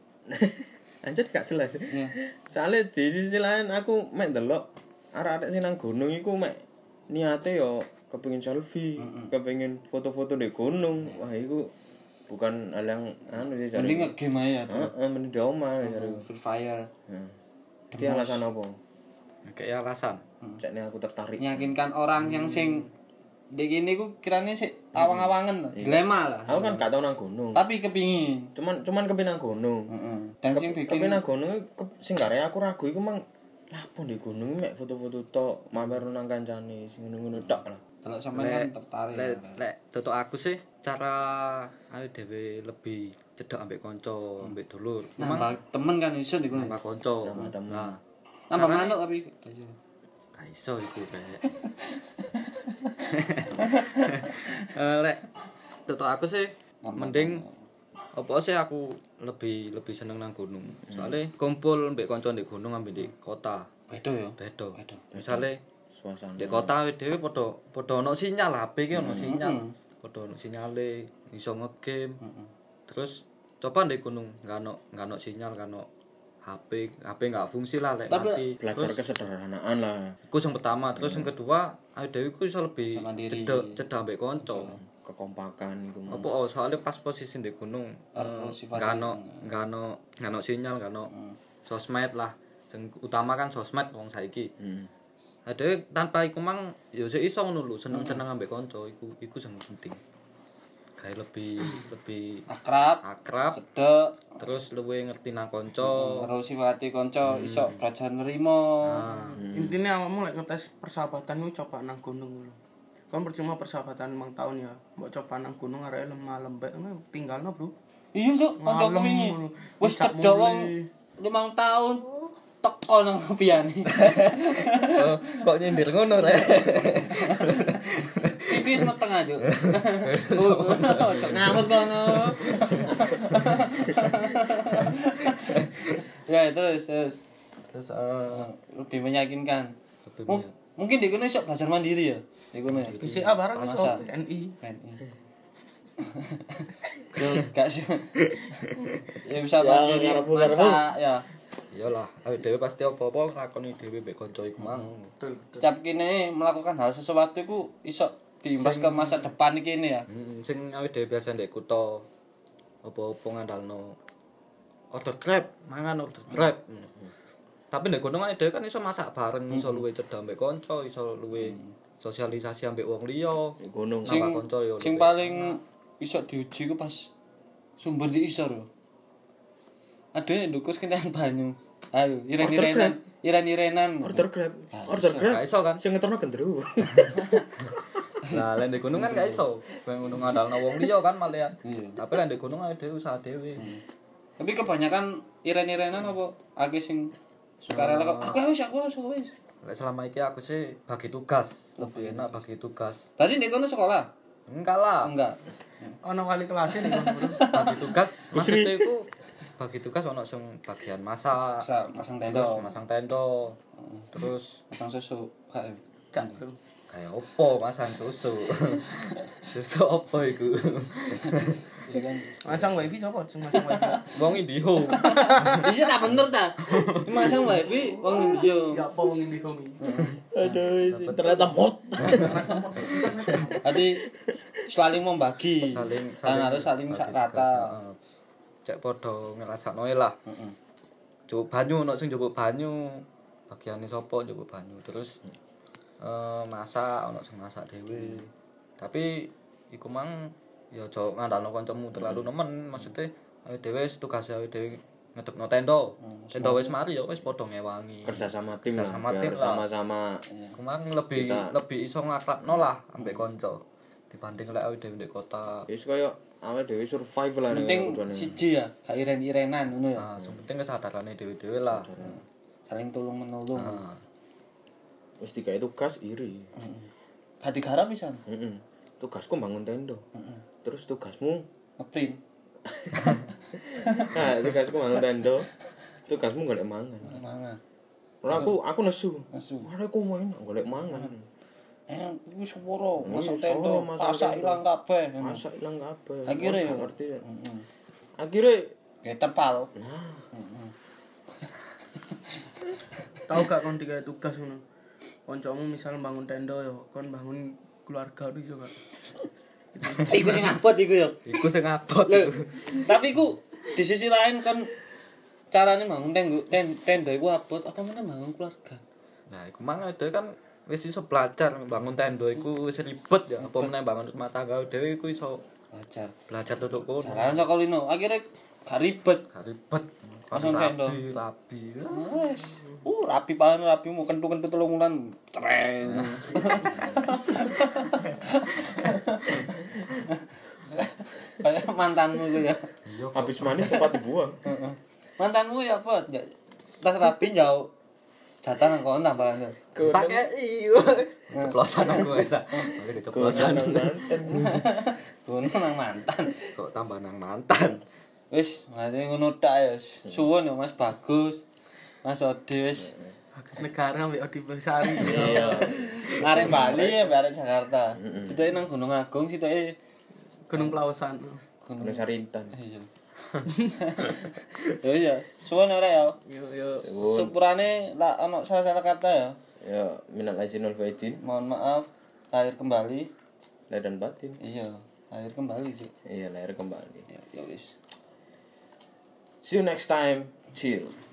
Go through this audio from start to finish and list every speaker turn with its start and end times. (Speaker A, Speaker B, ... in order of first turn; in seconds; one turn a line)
Speaker A: 0.3-11.7
Speaker B: 1.9-2.1
Speaker B: 9.0-9.3
Speaker A: 12.3-14.1
Speaker B: 13.7-14.9
Speaker A: 14.7-16.2
Speaker B: 15.8-16.9
Speaker A: 17.1-17.3
Speaker B: 17.9-18.4
Speaker A: 17.9-18.8
Speaker C: 19.4-20.2
Speaker A: 20.6-21.7
Speaker B: 21.4-22.9
Speaker C: 22.2-22.9
Speaker B: 23.5-26.8
Speaker A: 24.9-27.6
Speaker B: 27.6-28.5
Speaker A: 28.6-29.9
Speaker B: 29.9-31.2
Speaker A: 30.5-37.8
Speaker B: 38.0-39.6
Speaker C: 38.3-45.5
Speaker B: 45.2-46.8
Speaker C: 46.5-48.0
Speaker A: 47.2-48.0
Speaker B: 48.5-49.8
Speaker C: 48.5-49.0
Speaker C: 50.3-51.4
Speaker B: 51.5-54.5
Speaker C: 53.0-55.2
Speaker C: 55.9-57.4
Speaker B: 56.8-57.5
Speaker C: 58.1-63.7
Speaker A: 60.9-61.2
Speaker B: 63.9-65.1
Speaker C: 64.4-65.6
Speaker A: 65.1-66.8
Speaker C: 66.4-72.2
Speaker A: 68.9-69.4
Speaker B: 69.2-69.7
Speaker B: 72.2-72.5
Speaker C: 72.9-75.9
Speaker C: 76.4-79.0
Speaker B: 78.1-78.5
Speaker A: 78.6-80.2
Speaker C: 80.3-84.8
Speaker A: 81.0-81.3
Speaker B: 82.9-83.8
Speaker A: 84.6-86.3
Speaker C: 86.1-91.1
Speaker B: 88.1-89.5
Speaker B: 91.1-91.4
Speaker C: 91.6-94.5
Speaker A: 94.6-94.9
Speaker C: 95.5-100.0
Speaker B: 97.9-98.2
Speaker C: 101.0-102.5
Speaker B: 102.5-103.0
Speaker C: 103.0-103.6
Speaker B: 103.5-104.2
Speaker C: 104.4-106.3
Speaker B: 105.8-109.0
Speaker C: 107.3-107.8
Speaker C: 108.8-109.4
Speaker D: 109.0-112.6
Speaker A: 109.4-109.8
Speaker D: 113.1-117.7
Speaker B: 118.1-125.4
Speaker D: 118.6-120.9
Speaker C: 123.9-128.9
Speaker B: 127.0-137.2
Speaker C: 129.5-134.0
Speaker C: 134.8-135.7
Speaker C: 137.7-138.5
Speaker B: 138.3-139.7
Speaker C: 140.1-140.5
Speaker B: 140.3-143.0
Speaker C: 142.7-144.1
Speaker D: 143.0-144.6
Speaker B: 143.6-144.0
Speaker B: 144.6-145.1
Speaker B: 146.0-148.1
Speaker A: 148.3-148.7
Speaker B: 149.1-151.2
Speaker A: 149.6-150.8
Speaker C: 151.7-155.1
Speaker B: 154.6-154.9
Speaker D: 155.2-155.7
Speaker B: 155.6-160.1
Speaker C: 158.6-159.3
Speaker C: 160.1-162.1
Speaker C: 162.8-163.9
Speaker C: 164.9-166.9
Speaker C: 167.7-175.6
Speaker B: 169.5-169.8
Speaker B: 171.4-171.7
Speaker A: 173.6-174.3
Speaker B: 174.1-177.1
Speaker B: 177.8-178.7
Speaker B: 180.1-185.3
Speaker A: 182.4-183.0
Speaker A: 184.0-187.3
Speaker C: 185.2-185.8
Speaker B: 187.1-187.4
Speaker B: 188.2-189.4
Speaker C: 188.3-193.7
Speaker B: 191.6-192.1
Speaker B: 193.6-193.8
Speaker B: 194.4-199.3
Speaker C: 197.7-198.5
Speaker C: 199.6-203.1
Speaker B: 201.8-202.3
Speaker B: 203.2-204.1
Speaker C: 204.5-205.1
Speaker B: 205.0-206.0
Speaker D: 206.0-207.5
Speaker B: 206.7-207.9
Speaker C: 207.5-211.7
Speaker A: 208.3-208.9
Speaker B: 211.6-212.7
Speaker C: 212.3-213.6
Speaker B: 213.8-214.1
Speaker C: 214.1-214.6
Speaker B: 214.7-216.4
Speaker D: 216.1-216.6
Speaker C: 216.9-221.7
Speaker B: 221.2-222.5
Speaker D: 222.4-224.2
Speaker B: 223.6-224.1
Speaker C: 224.1-225.7
Speaker B: 224.9-228.9
Speaker D: 225.0-225.7
Speaker C: 226.7-227.4
Speaker D: 227.4-229.8
Speaker B: 229.8-230.6
Speaker A: 230.3-234.5
Speaker C: 230.9-232.3
Speaker D: 232.0-233.7
Speaker B: 232.1-232.6
Speaker B: 233.6-234.1
Speaker B: 234.7-237.7
Speaker C: 235.7-238.0
Speaker C: 238.6-240.2
Speaker B: 240.3-240.6
Speaker C: 241.3-245.2
Speaker C: 246.0-259.6
Speaker B: 247.9-248.2
Speaker A: 251.9-252.3
Speaker B: 256.0-256.8
Speaker A: 258.0-260.2
Speaker B: 260.3-260.6
Speaker C: 260.6-265.7
Speaker A: 261.1-261.6
Speaker A: 265.7-268.4
Speaker B: 267.5-270.1
Speaker C: 270.0-271.9
Speaker A: 271.6-272.2
Speaker B: 272.0-273.8
Speaker C: 273.6-274.0
Speaker A: 275.2-276.5
Speaker B: 276.6-276.9
Speaker B: 277.4-278.2
Speaker A: 278.3-280.1
Speaker B: 280.1-280.4
Speaker A: 280.6-281.4
Speaker B: 281.8-282.2
Speaker A: 282.6-285.5
Speaker B: 283.8-284.4
Speaker A: 286.1-287.2
Speaker B: 287.1-287.6
Speaker A: 288.2-291.3
Speaker B: 289.3-289.7
Speaker B: 291.9-295.4
Speaker A: 293.0-294.6
Speaker A: 295.2-297.2
Speaker B: 296.3-297.6
Speaker A: 298.2-298.7
Speaker B: 299.0-299.7
Speaker A: 299.7-300.3
Speaker B: 300.3-300.7
Speaker D: 303.3-304.6
Speaker D: 305.3-308.8
Speaker D: 309.8-310.4
Speaker B: 309.8-311.4
Speaker C: 311.2-312.9
Speaker B: 312.1-314.7
Speaker B: 315.5-318.8
Speaker C: 319.3-325.4
Speaker B: 323.4-323.7
Speaker B: 325.7-326.1
Speaker C: 326.3-327.4
Speaker B: 327.0-329.3
Speaker C: 329.3-332.2
Speaker B: 330.3-331.0
Speaker B: 331.9-339.5
Speaker C: 335.8-337.0
Speaker B: 340.1-342.7
Speaker C: 342.8-343.9
Speaker A: 343.1-344.4
Speaker B: 344.4-347.7
Speaker B: 348.4-349.6
Speaker A: 349.7-350.3
Speaker C: 349.8-354.0
Speaker B: 351.3-352.7
Speaker A: 353.1-354.6
Speaker B: 354.3-356.4
Speaker C: 356.5-357.8
Speaker B: 358.3-361.4
Speaker B: 362.0-362.9
Speaker D: 363.3-366.2
Speaker B: 364.9-369.8
Speaker A: 364.9-367.1
Speaker A: 368.0-368.4
Speaker D: 370.5-371.4
Speaker B: 371.6-372.9
Speaker A: 371.8-372.5
Speaker B: 373.6-376.2
Speaker D: 376.3-376.9
Speaker A: 376.8-377.3
Speaker B: 376.9-379.4
Speaker A: 379.6-381.2
Speaker B: 381.2-383.1
Speaker A: 383.7-384.4
Speaker B: 384.4-385.9
Speaker A: 386.1-387.1
Speaker B: 387.1-387.8
Speaker A: 389.4-390.9